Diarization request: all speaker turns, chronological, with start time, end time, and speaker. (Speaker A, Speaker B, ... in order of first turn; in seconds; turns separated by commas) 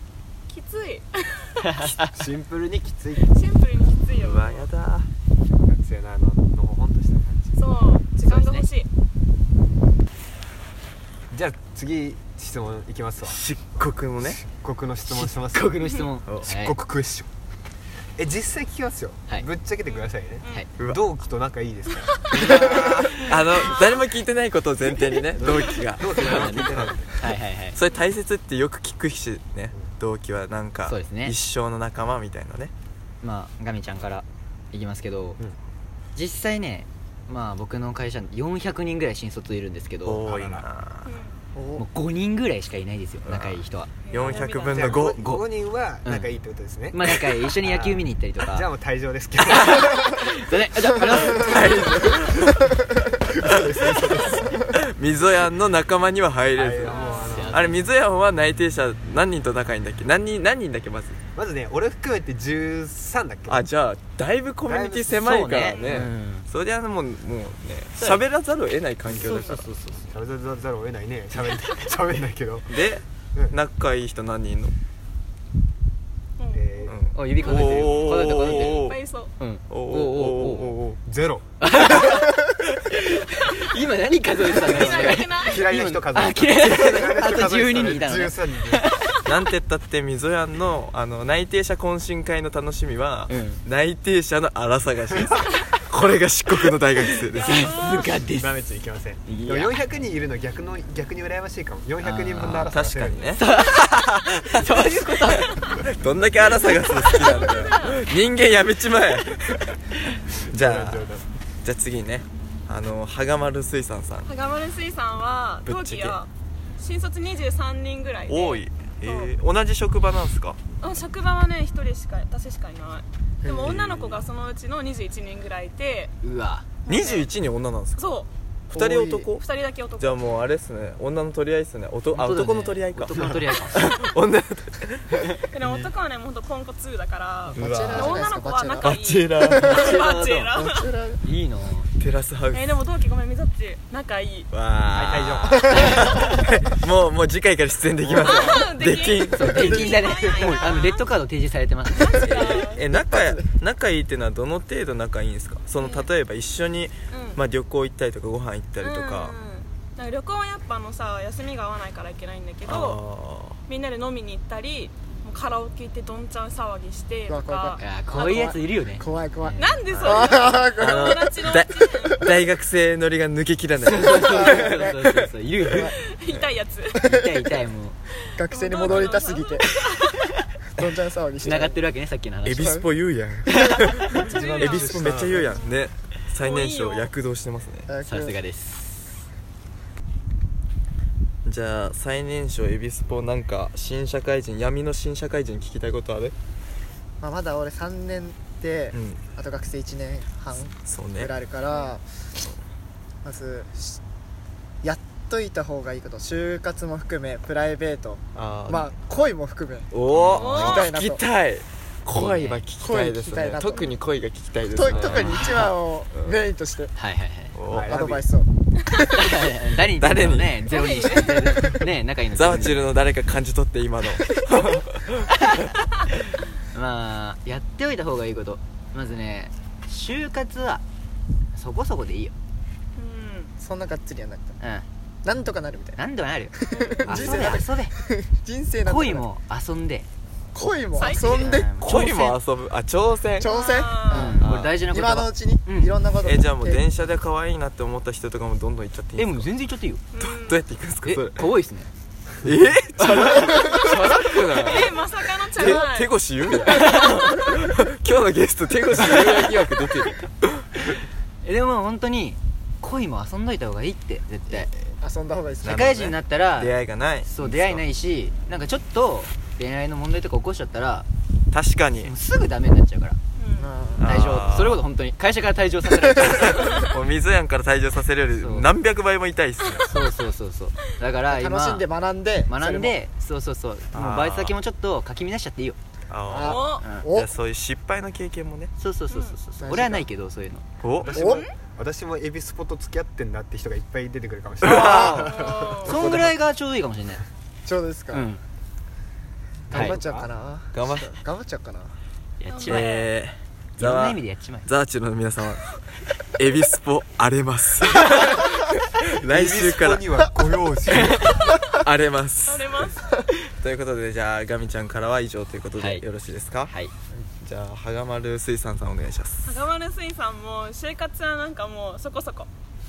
Speaker A: 0.5-1.6, Speaker B: 1.6-2.1, Speaker C: 2.1-3.3, Speaker A: 3.3-4.7, Speaker D: 4.2-5.1, Speaker C: 5.6-7.5, Speaker A: 7.5-8.9, Speaker B: 8.2-8.7, Speaker C: 11.3-13.5, Speaker D: 13.3-14.4, Speaker C: 14.2-15.8, Speaker B: 15.1-16.8, Speaker C: 16.4-17.3, Speaker C: 18.2-23.3, Speaker A: 19.9-20.6, Speaker A: 22.1-24.0, Speaker D: 22.3-26.9, Speaker C: 25.3-27.2, Speaker B: 26.1-27.8, Speaker D: 27.7-32.7, Speaker B: 30.9-31.4, Speaker B: 33.2-35.4, Speaker B: 36.1-40.2, Speaker D: 40.0-41.1, Speaker C: 40.2-40.7, Speaker A: 41.1-41.4, Speaker E: 41.5-41.9, Speaker B: 41.8-43.9, Speaker D: 43.2-43.6, Speaker A: 44.1-45.0, Speaker D: 44.1-45.4, Speaker C: 44.3-50.1, Speaker B: 46.0-46.3, Speaker B: 46.9-48.7, Speaker B: 49.5-52.0, Speaker D: 51.1-52.7, Speaker C: 53.1-54.6, Speaker D: 53.4-61.2, Speaker C: 56.5-57.8, Speaker A: 56.9-57.6, Speaker B: 57.3-57.8, Speaker C: 61.3-63.7, Speaker D: 63.5-69.7, Speaker C: 64.7-66.1, Speaker B: 65.2-66.5, Speaker A: 65.6-66.1, Speaker B: 68.0-68.2, Speaker C: 69.1-72.8, Speaker B: 69.2-69.8, Speaker D: 72.7-74.8, Speaker A: 76.4-76.9, Speaker C: 76.5-77.0, Speaker D: 76.9-79.0, Speaker B: 77.1-80.8, Speaker A: 77.5-79.3, Speaker D: 79.7-81.0, Speaker C: 81.0-81.5, Speaker B: 81.6-89.2, Speaker A: 84.6-85.7, Speaker C: 84.8-88.9, Speaker D: 89.2-97.8, Speaker B: 93.3-93.6, Speaker A: 97.3-98.2, Speaker B: 97.4-98.5, Speaker C: 98.1-103.3, Speaker B: 99.3-99.8, Speaker B: 102.0-102.8, Speaker D: 102.7-103.4, Speaker A: 103.1-103.4, Speaker B: 103.3-105.5, Speaker D: 105.4-109.8, Speaker A: 107.0-108.1, Speaker D: 110.5-111.1, Speaker C: 110.5-111.2, Speaker D: 111.6-114.3, Speaker A: 114.3-119.3, Speaker D: 115.7-116.2, Speaker D: 118.3-120.6, Speaker A: 120.8-126.1, Speaker E: 123.4-123.8, Speaker D: 123.6-124.2, Speaker B: 126.2-126.7, Speaker A: 126.8-127.3, Speaker D: 126.9-128.1, Speaker A: 128.0-128.3, Speaker D: 128.7-129.5, Speaker E: 128.7-129.3, Speaker A: 129.4-130.2, Speaker D: 130.0-135.9, Speaker B: 132.1-133.9, Speaker A: 135.5-140.9, Speaker E: 137.5-138.9, Speaker D: 137.6-139.8, Speaker E: 139.5-140.0, Speaker B: 139.6-140.6, Speaker E: 140.5-141.2, Speaker B: 141.2-141.9, Speaker D: 142.0-142.8, Speaker A: 142.5-144.5, Speaker D: 144.5-150.0, Speaker C: 144.9-145.8, Speaker C: 148.1-148.6, Speaker A: 148.2-151.1, Speaker B: 149.3-152.7, Speaker E: 149.5-150.7, Speaker A: 152.0-152.8, Speaker E: 152.3-153.5, Speaker D: 152.7-159.3, Speaker A: 155.8-156.1, Speaker A: 157.1-157.4, Speaker A: 158.8-163.0, Speaker D: 162.7-163.6, Speaker A: 163.7-168.5, Speaker E: 167.3-171.5, Speaker B: 167.8-169.7, Speaker A: 169.6-172.2, Speaker D: 169.9-175.1, Speaker B: 173.8-175.9, Speaker E: 174.1-175.0, Speaker E: 175.7-176.0, Speaker A: 175.8-177.1, Speaker E: 177.0-177.5, Speaker B: 177.0-178.0, Speaker E: 178.3-180.2, Speaker A: 178.4-180.2, Speaker E: 180.8-181.8, Speaker B: 181.4-182.8, Speaker D: 182.4-187.9, Speaker E: 182.6-182.9, Speaker B: 183.5-184.2, Speaker A: 184.1-185.8, Speaker E: 184.2-185.5, Speaker C: 185.0-185.4, Speaker A: 186.4-187.1, Speaker E: 187.9-188.4, Speaker B: 188.0-189.2, Speaker D: 191.4-196.3, Speaker E: 197.2-202.4, Speaker D: 198.9-199.2, Speaker D: 200.7-201.3, Speaker A: 201.7-201.9, Speaker E: 203.2-204.0, Speaker E: 204.8-211.2, Speaker D: 208.3-208.9, Speaker D: 209.9-216.4, Speaker B: 210.1-210.5, Speaker A: 210.4-210.9, Speaker B: 212.1-212.7, Speaker E: 212.8-213.9, Speaker E: 214.7-216.9, Speaker B: 214.9-215.7, Speaker C: 215.0-215.3, Speaker B: 216.9-217.6, Speaker D: 217.6-217.9, Speaker C: 217.7-218.3, Speaker E: 217.9-219.4, Speaker B: 219.1-222.9, Speaker D: 220.0-220.6, Speaker A: 220.7-221.7, Speaker D: 222.3-225.4, Speaker B: 226.7-230.8, Speaker B: 231.5-232.3, Speaker A: 233.0-233.5, Speaker E: 233.6-234.6, Speaker B: 234.6-234.9, Speaker E: 235.2-236.0, Speaker B: 236.0-237.9, Speaker E: 236.5-239.3, Speaker A: 236.7-237.1, Speaker D: 237.1-237.6, Speaker B: 238.8-240.1, Speaker E: 240.5-242.0, Speaker A: 241.0-241.5, Speaker B: 241.1-242.4, Speaker D: 241.8-243.6, Speaker E: 243.4-246.8, Speaker A: 243.4-244.4, Speaker B: 244.1-245.9, Speaker D: 244.4-244.8, Speaker D: 246.2-249.5, Speaker B: 249.2-250.0, Speaker A: 250.1-250.6, Speaker D: 250.2-251.5, Speaker B: 251.0-251.9, Speaker D: 252.4-255.0, Speaker B: 253.0-253.8, Speaker E: 253.6-253.9, Speaker A: 254.3-256.1, Speaker D: 255.6-260.7, Speaker A: 256.7-257.3, Speaker B: 261.4-264.7, Speaker E: 265.0-265.9, Speaker D: 265.6-267.9, Speaker B: 265.6-271.1, Speaker D: 271.5-272.1, Speaker B: 272.0-273.2, Speaker A: 273.4-273.8, Speaker E: 273.6-274.1, Speaker D: 274.0-274.8, Speaker B: 274.0-276.8, Speaker E: 276.0-276.3, Speaker D: 276.2-280.0, Speaker B: 278.4-278.7, Speaker B: 279.9-281.9, Speaker E: 281.3-283.0, Speaker B: 282.5-285.8, Speaker D: 283.9-284.6, Speaker D: 286.1-288.7, Speaker E: 286.3-287.3, Speaker A: 286.4-286.9, Speaker B: 286.8-287.1, Speaker B: 288.8-290.6, Speaker A: 289.1-289.4, Speaker E: 289.6-290.1, Speaker D: 290.8-291.1, Speaker C: 291.0-296.3, Speaker A: 291.1-291.5, Speaker E: 291.1-291.5, Speaker D: 294.6-296.3, Speaker B: 294.7-295.0, Speaker E: 294.8-295.3, Speaker A: 295.1-296.1, Speaker B: 295.8-297.2, Speaker E: 297.6-298.3, Speaker B: 298.1-298.4, Speaker C: 299.7-300.3, Speaker B: 299.7-300.0, Speaker E: 299.7-301.9, Speaker D: 300.7-301.2, Speaker B: 302.4-303.0, Speaker A: 302.5-303.1, Speaker D: 302.7-305.6, Speaker B: 303.8-304.7, Speaker D: 306.4-310.0, Speaker C: 309.3-311.4, Speaker B: 310.9-311.3, Speaker D: 311.6-316.7, Speaker A: 312.5-313.0, Speaker B: 315.8-316.1, Speaker D: 317.4-319.5, Speaker A: 319.4-322.5